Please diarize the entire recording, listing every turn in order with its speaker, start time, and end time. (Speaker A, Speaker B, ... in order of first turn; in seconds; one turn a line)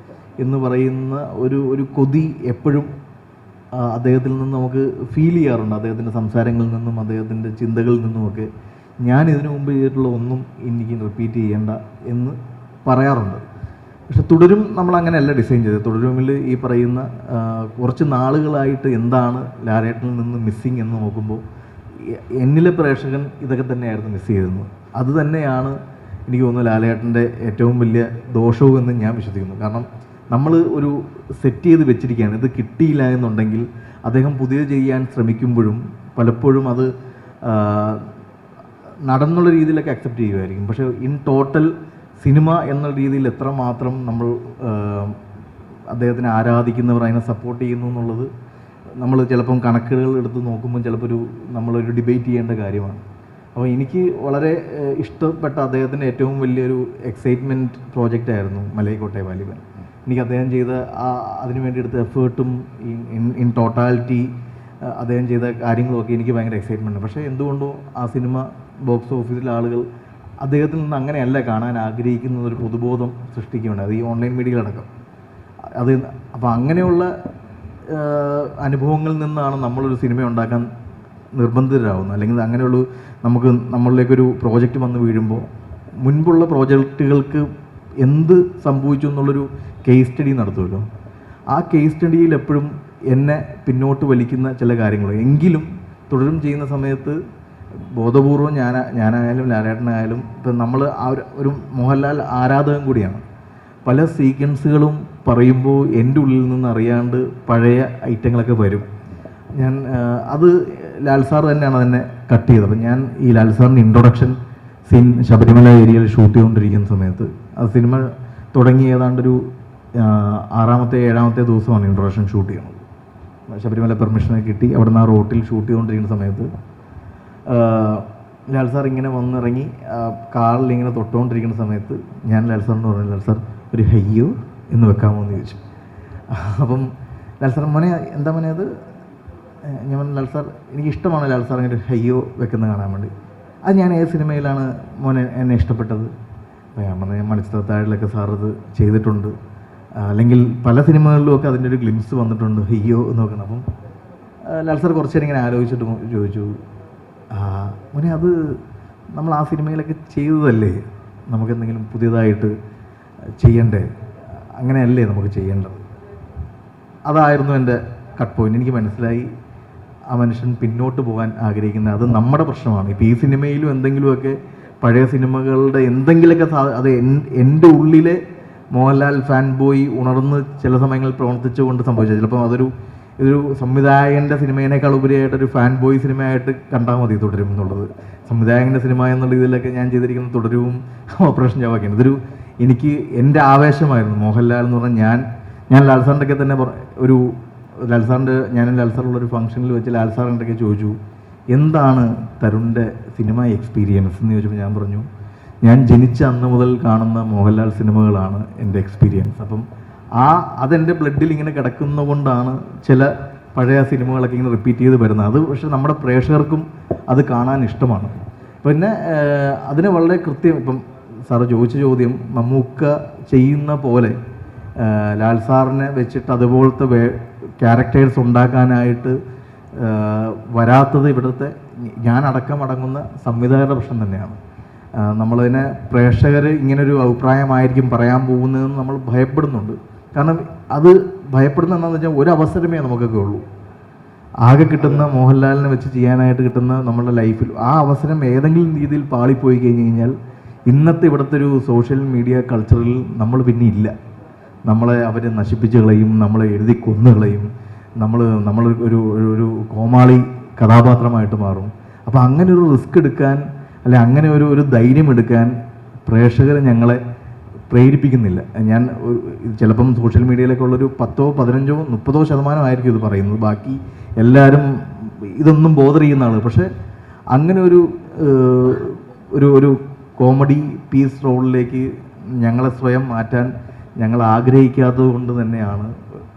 Speaker A: 0.4-2.9
Speaker A: 3.8-8.5
Speaker A: 9.0-13.5
Speaker A: 14.1-21.4
Speaker A: 22.0-25.8
Speaker A: 26.3-36.9
Speaker A: 37.4-38.1
Speaker A: 39.1-45.2
Speaker A: 45.9-48.3
Speaker A: 49.0-53.0
Speaker A: 53.5-64.3
Speaker A: 64.8-69.8
Speaker A: 70.4-74.9
Speaker A: 75.8-77.1
Speaker A: 77.9-80.7
Speaker A: 81.3-85.5
Speaker A: 86.0-87.5
Speaker A: 88.0-90.8
Speaker A: 91.5-97.2
Speaker A: 97.9-103.2
Speaker A: 103.8-108.9
Speaker A: 109.6-114.4
Speaker A: 114.9-119.4
Speaker A: 120.0-122.8
Speaker A: 123.5-126.5
Speaker A: 127.5-135.6
Speaker A: 136.3-138.7
Speaker A: 139.6-143.1
Speaker A: 143.7-146.1
Speaker A: 146.8-149.3
Speaker A: 150.0-153.7
Speaker A: 154.5-156.6
Speaker A: 157.3-158.3
Speaker A: 159.2-162.5
Speaker A: 163.4-163.9
Speaker A: 164.6-165.8
Speaker A: 167.1-169.3
Speaker A: 170.1-178.2
Speaker A: 178.7-201.0
Speaker A: 201.5-205.1
Speaker A: 205.6-209.6
Speaker A: 210.2-224.2
Speaker A: 224.8-229.2
Speaker A: 229.8-234.4
Speaker A: 235.0-243.4
Speaker A: 244.4-250.1
Speaker A: 250.7-253.9
Speaker A: 254.7-257.5
Speaker A: 258.0-265.5
Speaker A: 266.1-267.0
Speaker A: 267.7-276.7
Speaker A: 277.3-281.9
Speaker A: 282.4-285.9